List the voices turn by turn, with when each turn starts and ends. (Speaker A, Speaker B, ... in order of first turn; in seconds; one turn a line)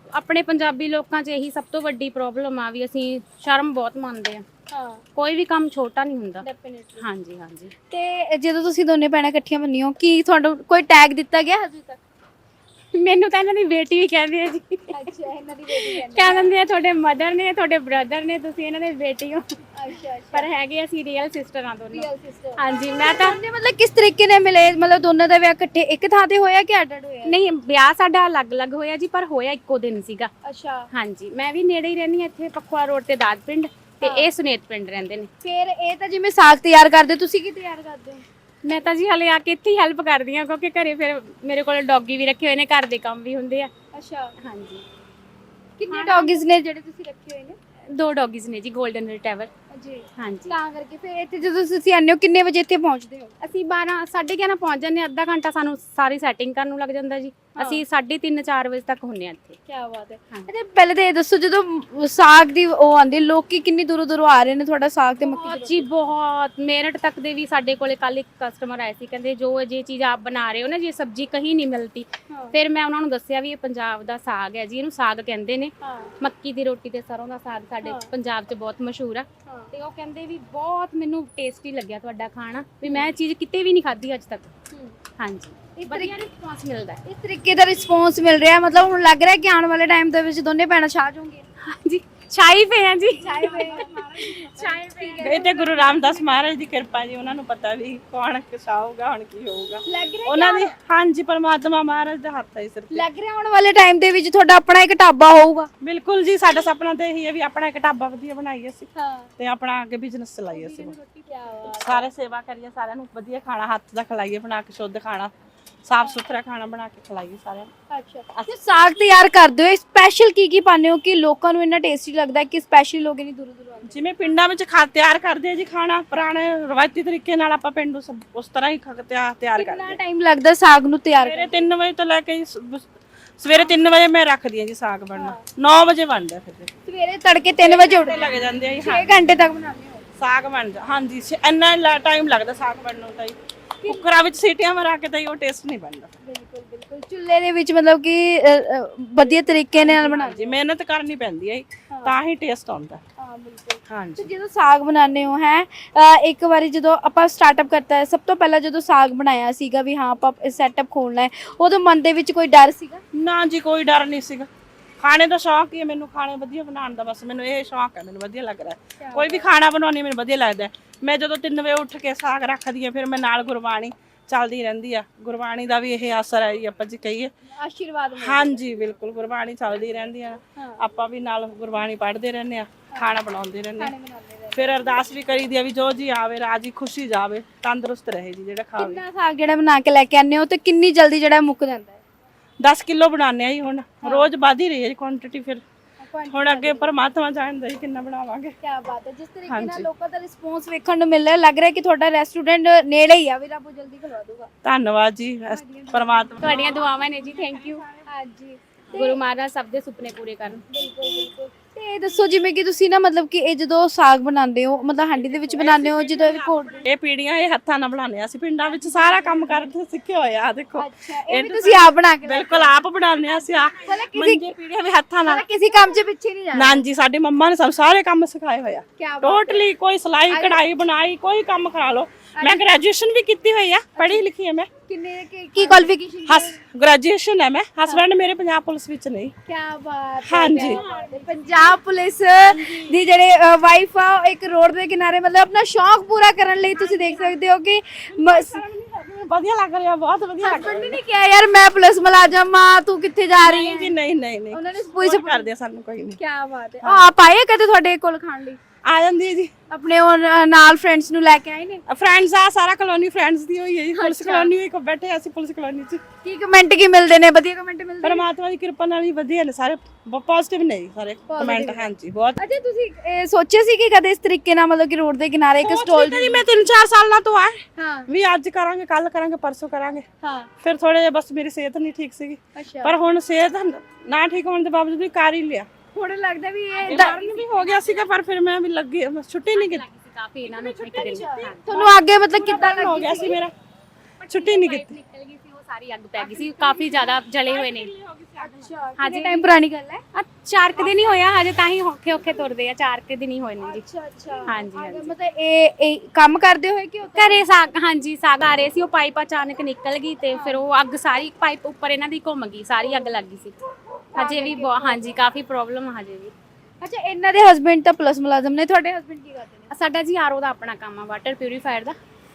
Speaker A: 0.1-4.4
Speaker B: 4.7-5.0
Speaker A: 5.2-6.5
Speaker B: 6.4-7.1
Speaker A: 7.0-7.7
Speaker B: 7.9-12.0
Speaker A: 12.9-15.1
Speaker B: 14.9-16.5
Speaker A: 15.7-19.5
Speaker B: 19.8-20.5
Speaker A: 20.3-23.4
Speaker B: 21.9-27.4
Speaker A: 27.2-30.3
Speaker B: 30.4-30.9
Speaker A: 30.9-35.3
Speaker B: 34.0-34.3
Speaker B: 35.4-38.2
Speaker A: 38.6-43.7
Speaker B: 43.9-44.4
Speaker A: 44.4-44.9
Speaker B: 45.8-47.6
Speaker A: 45.9-46.4
Speaker A: 47.9-49.5
Speaker B: 49.7-53.3
Speaker A: 50.2-50.5
Speaker A: 53.4-59.6
Speaker B: 57.5-57.8
Speaker B: 59.7-65.9
Speaker A: 65.2-84.5
Speaker B: 72.3-72.6
Speaker B: 75.8-76.1
Speaker B: 77.8-78.1
Speaker B: 79.5-79.7
Speaker B: 82.8-83.1
Speaker B: 84.7-85.0
Speaker A: 85.2-87.0
Speaker B: 85.8-86.2
Speaker B: 87.1-91.4
Speaker A: 91.6-95.7
Speaker B: 93.2-96.2
Speaker C: 95.2-103.1
Speaker B: 99.8-100.7
Speaker B: 102.9-105.7
Speaker C: 105.8-111.0
Speaker B: 109.0-109.3
Speaker B: 110.5-112.1
Speaker A: 110.8-111.2
Speaker C: 111.6-115.3
Speaker C: 115.9-117.7
Speaker B: 117.9-124.0
Speaker C: 118.3-118.6
Speaker C: 123.8-130.0
Speaker B: 129.6-131.7
Speaker C: 131.2-132.9
Speaker C: 133.4-136.7
Speaker B: 135.2-135.4
Speaker B: 136.9-140.1
Speaker C: 137.6-139.2
Speaker C: 140.2-146.1
Speaker B: 146.2-150.6
Speaker C: 149.8-153.0
Speaker B: 151.9-152.2
Speaker B: 153.2-163.0
Speaker C: 153.9-154.3
Speaker C: 163.1-164.5
Speaker C: 165.0-177.3
Speaker B: 169.0-169.5
Speaker B: 177.6-178.6
Speaker C: 178.2-183.9
Speaker B: 183.8-185.0
Speaker C: 184.5-189.0
Speaker B: 188.8-192.0
Speaker C: 192.6-195.6
Speaker B: 194.0-194.3
Speaker B: 196.0-196.9
Speaker C: 196.3-198.5
Speaker B: 198.6-204.5
Speaker C: 199.5-199.9
Speaker C: 204.6-206.8
Speaker B: 205.5-206.9
Speaker A: 206.4-207.8
Speaker B: 207.9-209.2
Speaker A: 208.9-210.6
Speaker B: 210.7-216.9
Speaker C: 215.2-225.5
Speaker B: 218.9-219.6
Speaker B: 220.8-222.8
Speaker B: 223.8-224.5
Speaker B: 225.2-226.8
Speaker C: 226.5-234.7
Speaker B: 229.0-229.6
Speaker B: 230.3-230.6
Speaker B: 232.3-232.6
Speaker B: 233.9-234.3
Speaker B: 234.9-236.6
Speaker C: 235.6-239.3
Speaker B: 239.5-248.6
Speaker C: 240.2-240.8
Speaker A: 240.5-241.7
Speaker C: 242.4-243.0
Speaker A: 246.9-247.2
Speaker C: 248.1-251.0
Speaker B: 250.4-253.9
Speaker C: 253.4-256.2
Speaker B: 254.5-255.5
Speaker B: 256.0-258.6
Speaker C: 256.8-257.1
Speaker C: 258.9-259.5
Speaker B: 259.7-261.8
Speaker C: 261.9-266.0
Speaker B: 263.9-264.5
Speaker B: 266.2-268.2
Speaker C: 268.0-272.4
Speaker B: 271.3-276.5
Speaker C: 275.6-280.0
Speaker B: 277.8-278.1
Speaker B: 280.2-280.5
Speaker C: 280.6-285.7
Speaker B: 282.6-283.0
Speaker B: 285.9-287.4
Speaker A: 286.7-288.0
Speaker C: 286.8-289.9
Speaker A: 289.5-292.0
Speaker C: 290.4-291.5
Speaker B: 290.9-293.4
Speaker C: 292.4-293.5
Speaker A: 294.2-297.9
Speaker C: 294.3-294.9
Speaker B: 296.2-297.2
Speaker C: 297.4-298.7
Speaker B: 298.4-300.0
Speaker A: 299.0-299.5
Speaker A: 300.1-303.8
Speaker B: 303.6-307.4
Speaker A: 304.5-305.1
Speaker A: 307.1-313.6
Speaker B: 310.3-310.6
Speaker B: 314.1-315.1
Speaker A: 314.1-316.3
Speaker B: 316.8-319.7
Speaker A: 319.7-322.0